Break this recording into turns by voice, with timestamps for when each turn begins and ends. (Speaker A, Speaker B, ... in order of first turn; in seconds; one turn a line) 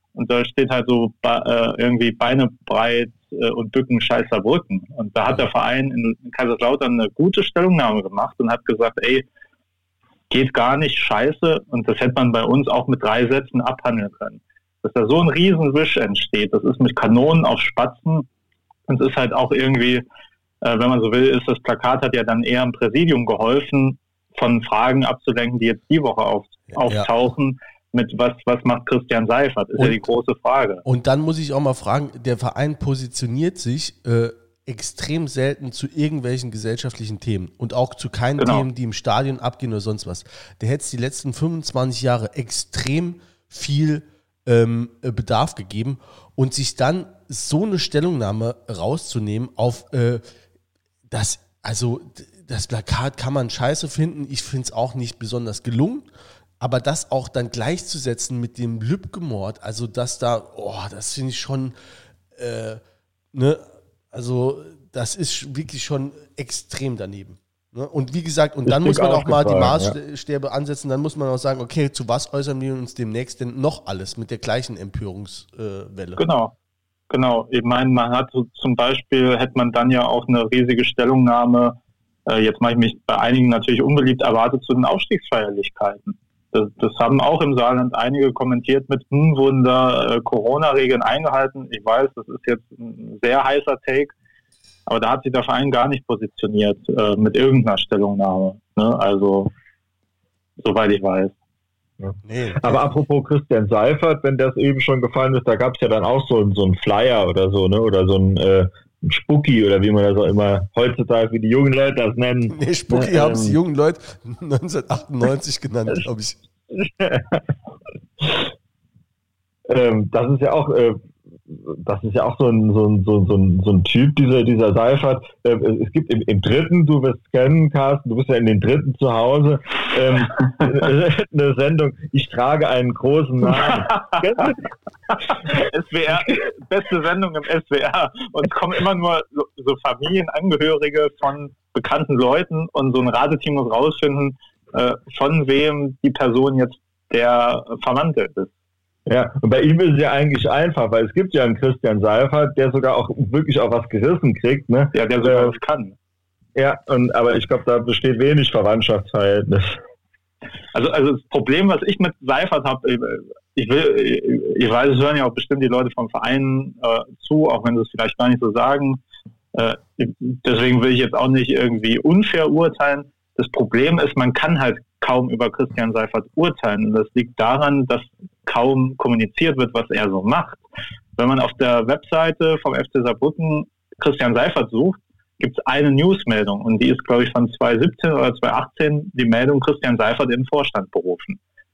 Speaker A: 0.1-9.2
Speaker A: 10.3-18.3
Speaker A: 18.9-20.0
Speaker A: 20.6-30.8
Speaker B: 26.7-27.1
Speaker B: 30.8-50.2
Speaker A: 38.4-38.6
Speaker B: 51.1-56.1
Speaker B: 56.6-61.8
Speaker B: 62.3-62.8
Speaker B: 63.3-76.2
Speaker C: 68.7-70.0
Speaker A: 76.2-76.5
Speaker A: 77.1-94.1
Speaker A: 94.9-99.5
Speaker A: 100.6-101.3
Speaker B: 102.2-102.8
Speaker C: 102.5-113.6
Speaker B: 112.5-116.4
Speaker C: 116.7-117.4
Speaker C: 119.7-134.6
Speaker A: 133.7-134.0
Speaker A: 135.3-148.5
Speaker C: 149.1-155.5
Speaker A: 154.9-155.9
Speaker C: 156.6-159.8
Speaker A: 160.7-169.0
Speaker A: 169.5-180.6
Speaker A: 181.2-191.4